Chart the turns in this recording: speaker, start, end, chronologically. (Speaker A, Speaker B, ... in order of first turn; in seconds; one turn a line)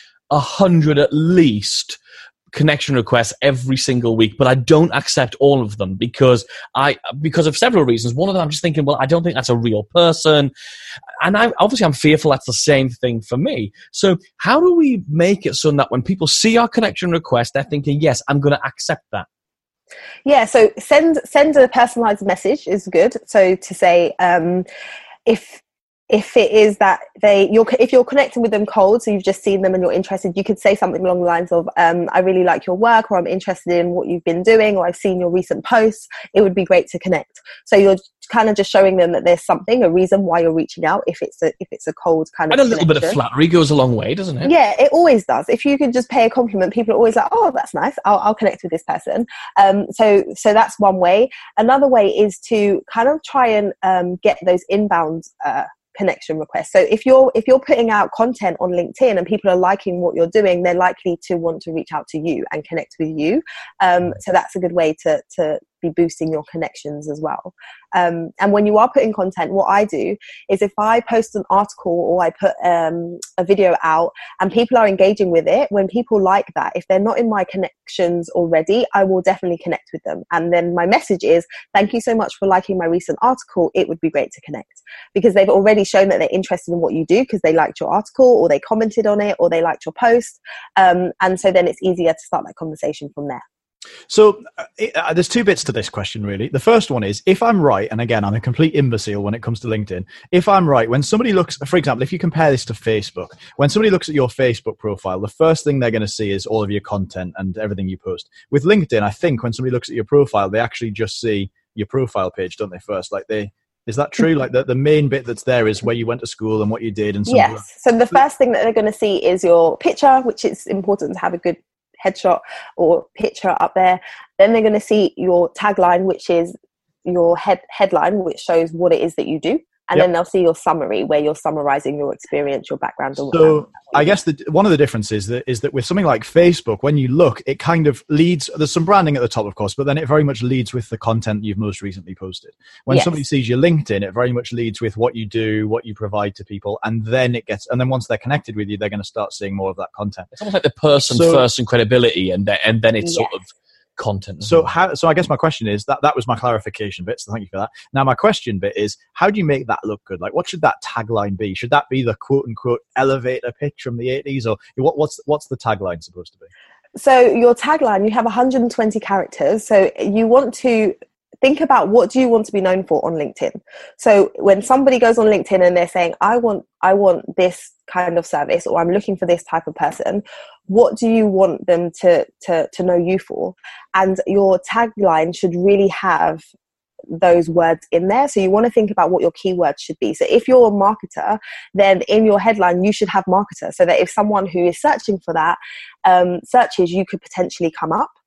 Speaker A: 0.3-2.0
Speaker A: 2.5-10.5
Speaker A: 11.2-19.3
Speaker B: 20.3-24.6
Speaker B: 25.3-43.2
Speaker A: 42.5-44.5
Speaker B: 44.4-93.4
Speaker C: 94.1-117.7
Speaker B: 117.3-126.5
Speaker B: 127.0-134.1
Speaker C: 133.2-150.3
Speaker B: 142.9-143.2
Speaker A: 150.3-154.7
Speaker C: 151.1-151.4
Speaker B: 153.0-153.4
Speaker C: 154.4-166.5
Speaker B: 166.9-186.4
Speaker B: 187.1-198.1